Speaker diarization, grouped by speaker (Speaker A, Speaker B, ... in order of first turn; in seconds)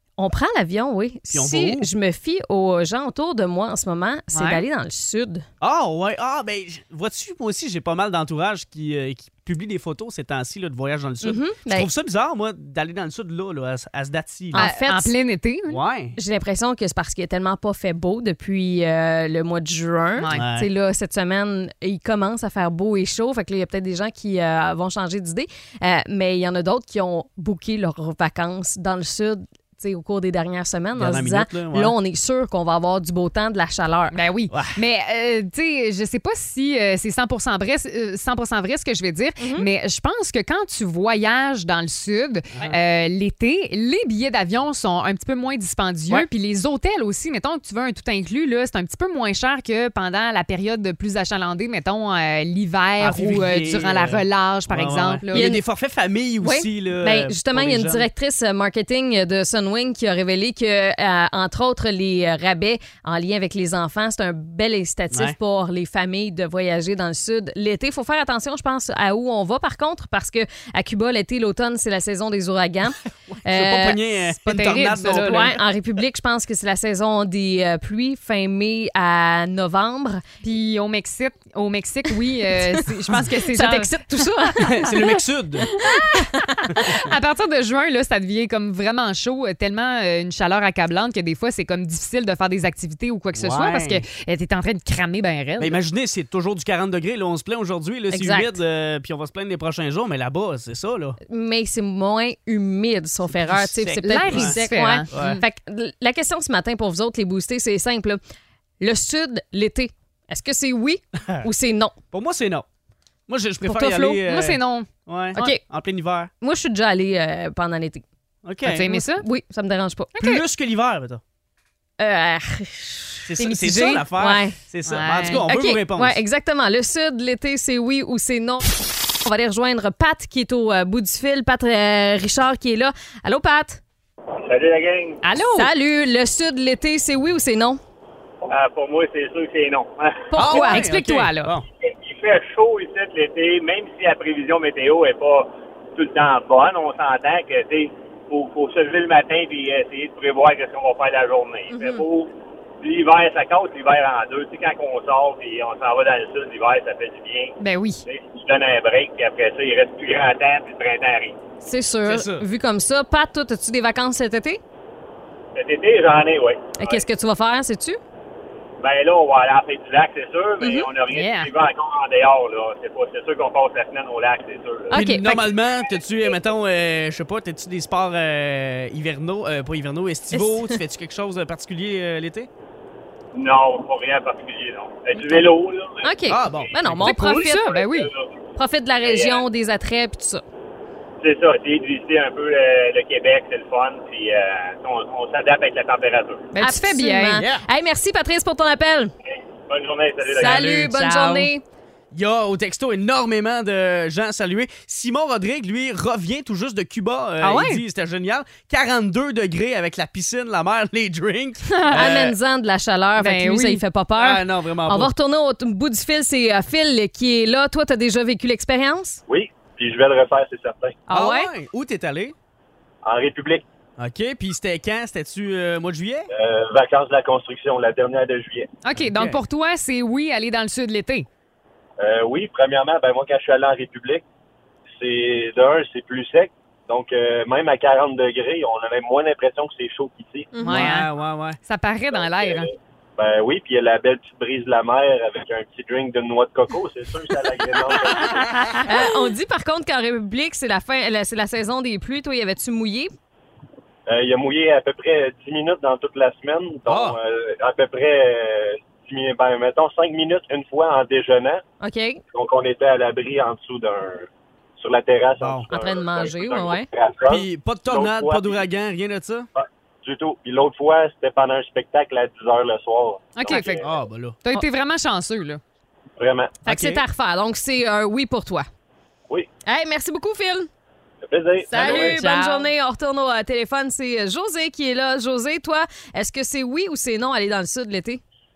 Speaker A: 0.2-5.4, 11.2-11.9, 14.5-15.1, 16.1-34.1, 39.4-39.7, 55.3-55.6, 56.4-74.0, 75.1-80.2, 83.2-84.9, 85.8-86.6, 98.1-98.6, 101.3-108.2, 108.8-112.0, 113.7-114.1, 115.3-115.6, 116.4-118.0, 118.9-120.1, 122.0-124.5, 125.5-133.8, 135.5-137.8, 140.3-140.8, 151.7-152.0, 161.6-164.6, 166.8-168.0, 170.6-170.9, 174.9-175.5, 180.3-180.8, 185.2-185.4, 186.0-187.7, 188.6-190.4, 196.6-199.1, 200.3-201.6, 211.9-219.2, 221.1-221.5, 240.5-240.9, 248.8-253.1, 261.8-262.2, 265.7-266.9, 276.6-278.7, 279.6-280.7, 281.7-288.2
Speaker B: 1.3-1.9, 5.6-14.7, 15.7-16.1, 20.3-20.7, 30.9-31.9, 34.5-34.8, 53.0-58.0, 65.1-65.3, 73.5-75.5, 84.6-85.7, 93.3-94.0, 95.6-101.2, 103.3-104.6, 105.1-105.4, 112.1-112.7, 113.3-116.3, 118.4-118.9, 120.2-121.2, 123.2-126.2, 140.3-141.6, 162.0-162.4, 174.9-182.5, 186.3-187.2, 197.4-197.6, 200.4-201.5, 202.1-212.3, 214.2-215.1, 221.1-222.3, 224.0-226.3, 229.0-229.4, 240.7-241.6, 256.9-257.2, 265.4-265.7, 267.3-269.5, 273.8-274.4, 276.7-277.0
Speaker C: 4.3-4.6, 14.5-15.8, 20.2-20.4, 34.1-55.4, 74.4-75.5, 80.4-84.2, 85.7-95.8, 104.0-105.4, 114.0-115.5, 118.6-119.2, 120.2-120.4, 124.9-125.4, 135.2-135.7, 140.5-141.5, 157.6-158.0, 171.1-171.5, 187.0-188.1, 196.5-197.4, 207.4-207.8, 211.7-212.0, 213.2-213.8, 228.8-231.2, 240.6-241.1, 241.6-242.7, 273.4-273.8, 274.4-275.6, 281.8-282.7
Speaker D: 134.4-135.2, 138.5-140.3, 141.8-161.4, 165.5-167.0, 168.8-174.9, 183.3-186.6, 187.5-188.3, 189.0-189.4, 191.2-196.5, 199.7-200.7
Speaker E: 219.3-221.0, 223.0-223.6, 226.3-228.7, 232.0-234.2, 234.9-240.5, 242.2-248.8, 254.1-261.6, 262.3-268.6, 269.6-273.9, 276.2-276.6, 281.3-282.2